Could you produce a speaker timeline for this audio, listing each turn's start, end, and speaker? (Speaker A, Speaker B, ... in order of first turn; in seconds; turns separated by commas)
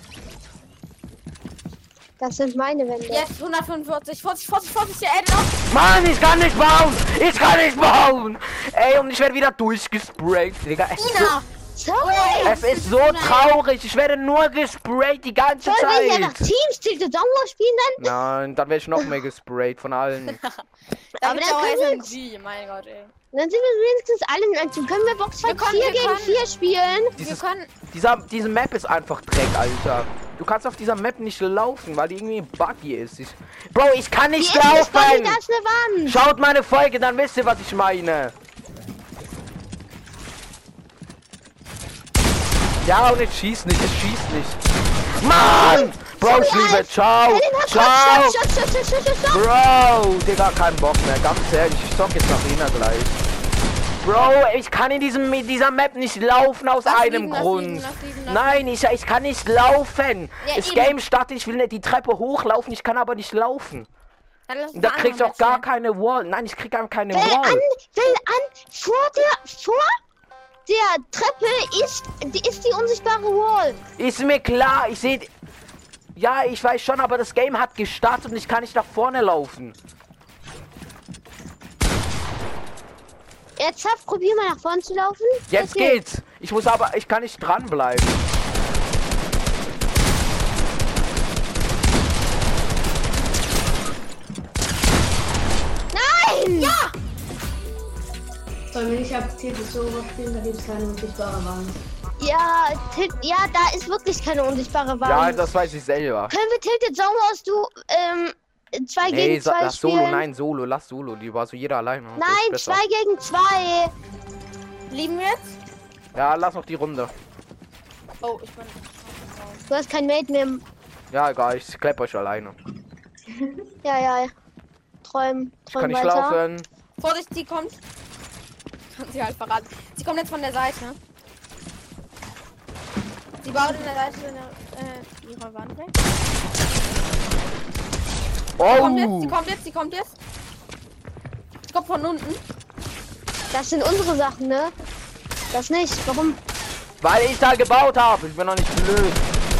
Speaker A: 2.2-3.2, Speaker B: 3.1-5.6, Speaker C: 5.7-11.3, Speaker B: 10.9-11.5, Speaker A: 11.7-12.6, Speaker B: 12.0-13.5, Speaker C: 12.4-16.5, Speaker A: 15.6-18.1, Speaker C: 18.0-20.4, Speaker B: 21.2-23.1, Speaker A: 21.2-22.2, Speaker A: 23.3-27.1, Speaker B: 25.4-26.4, Speaker B: 27.2-27.7, Speaker C: 27.2-35.4, Speaker A: 34.4-36.2, Speaker C: 36.0-38.3, Speaker C: 42.8-44.6, Speaker C: 45.2-48.4, Speaker A: 45.5-49.4, Speaker C: 49.3-53.2, Speaker C: 54.0-63.9, Speaker B: 56.8-58.6, Speaker B: 60.4-61.0, Speaker B: 64.5-65.6, Speaker C: 64.7-67.6, Speaker A: 67.1-70.0, Speaker A: 70.7-73.8, Speaker C: 74.0-75.3, Speaker C: 76.2-79.8, Speaker A: 83.6-86.0, Speaker C: 85.5-88.2, Speaker A: 95.9-96.8, Speaker B: 96.5-96.9, Speaker D: 98.7-101.8, Speaker A: 102.2-105.5, Speaker C: 105.0-106.3, Speaker A: 106.3-110.2, Speaker C: 109.1-112.8, Speaker A: 112.2-113.9, Speaker B: 114.9-115.6, Speaker C: 116.1-117.1, Speaker B: 118.2-119.6, Speaker A: 119.7-120.6, Speaker C: 121.1-122.5, Speaker A: 123.8-124.3, Speaker A: 125.0-126.4, Speaker C: 125.7-126.7, Speaker B: 127.0-127.8, Speaker B: 128.9-131.0, Speaker B: 133.4-135.9, Speaker C: 138.6-139.4, Speaker B: 138.7-140.1, Speaker B: 141.7-142.4, Speaker A: 143.5-144.7, Speaker A: 145.5-146.4, Speaker C: 147.0-149.2